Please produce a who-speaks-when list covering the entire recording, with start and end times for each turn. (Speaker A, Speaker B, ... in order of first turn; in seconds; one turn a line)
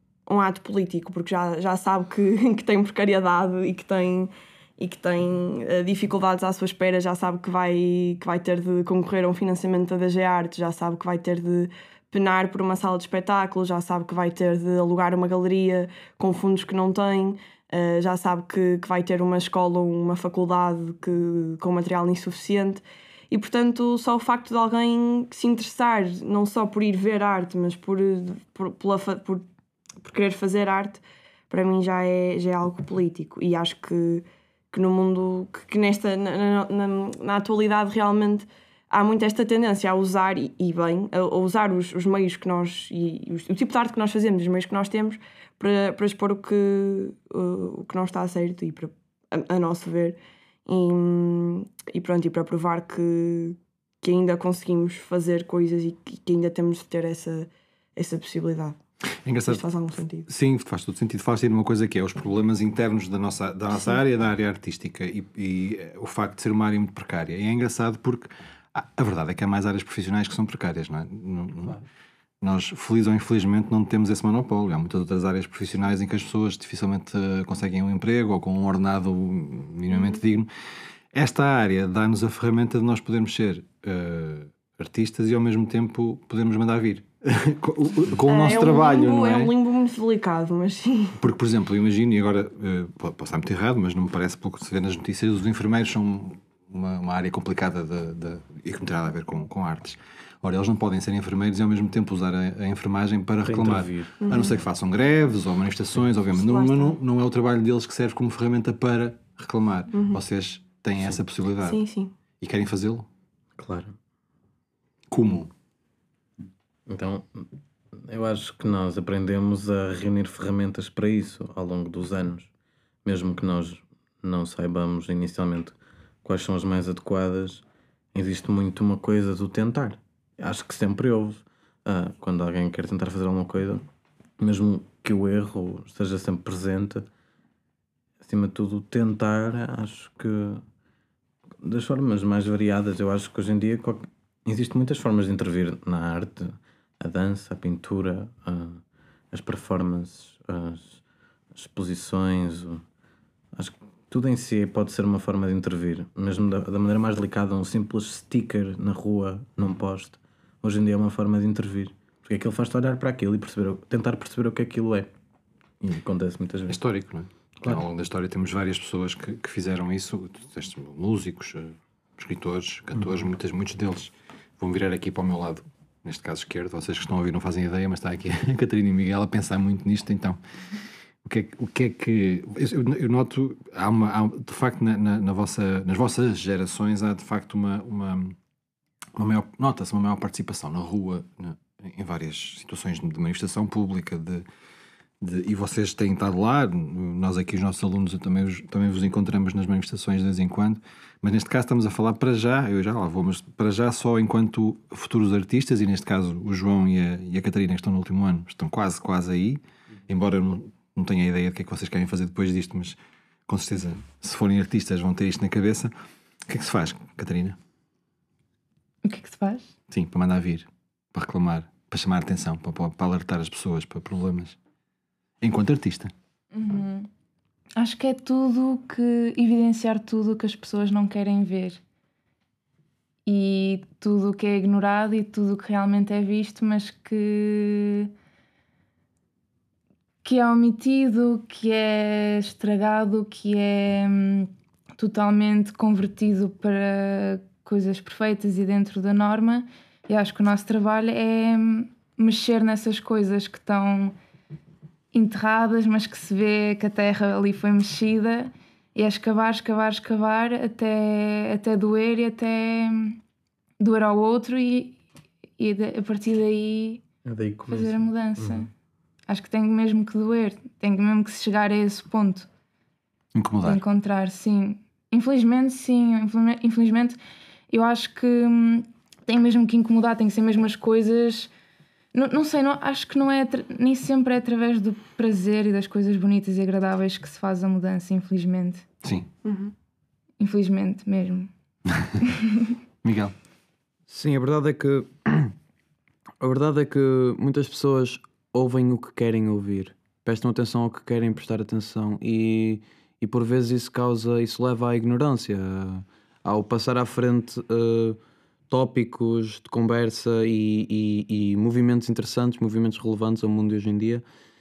Speaker A: 0.3-29.4
Speaker A: 30.0-58.8
Speaker B: 59.2-59.6
Speaker A: 59.5-60.3
Speaker B: 60.3-71.8
Speaker B: 72.4-80.5
Speaker B: 81.1-89.5
Speaker A: 88.3-91.2
Speaker B: 91.2-111.8
Speaker C: 103.4-104.3
Speaker A: 104.2-104.5
Speaker A: 106.3-107.0
Speaker A: 109.9-110.2
Speaker A: 111.6-112.1
Speaker B: 112.4-113.1
Speaker C: 113.6-113.9
Speaker B: 115.1-115.5
Speaker C: 116.9-117.5
Speaker C: 118.0-122.5
Speaker C: 123.0-133.8
Speaker C: 134.4-137.1
Speaker C: 138.2-140.6
Speaker C: 141.6-148.8
Speaker C: 149.3-151.0
Speaker C: 151.5-152.8
Speaker C: 153.6-165.1
Speaker C: 165.8-166.8
Speaker B: 166.7-180.4
Speaker B: 181.2-188.4
Speaker B: 189.2-194.4
Speaker B: 195.2-215.9
Speaker B: 216.5-217.6
Speaker D: 219.1-219.7
Speaker B: 219.9-224.6
Speaker B: 225.4-226.1
Speaker D: 226.5-227.1
Speaker D: 227.8-231.8
Speaker D: 233.3-238.1
Speaker D: 240.2-254.2
Speaker D: 255.1-263.2
Speaker D: 263.8-265.0
Speaker D: 265.6-267.0
Speaker C: 267.2-268.7
Speaker D: 267.7-268.7
Speaker D: 269.3-272.5
Speaker B: 273.4-273.8
Speaker D: 273.6-277.2
Speaker D: 277.7-281.5
Speaker D: 282.1-288.9
Speaker B: 289.0-289.3
Speaker A: 289.4-289.7
Speaker D: 290.4-291.5
Speaker D: 292.3-292.7
Speaker B: 293.0-293.3
Speaker E: 294.1-295.5
Speaker E: 296.4-308.2
Speaker E: 308.7-314.2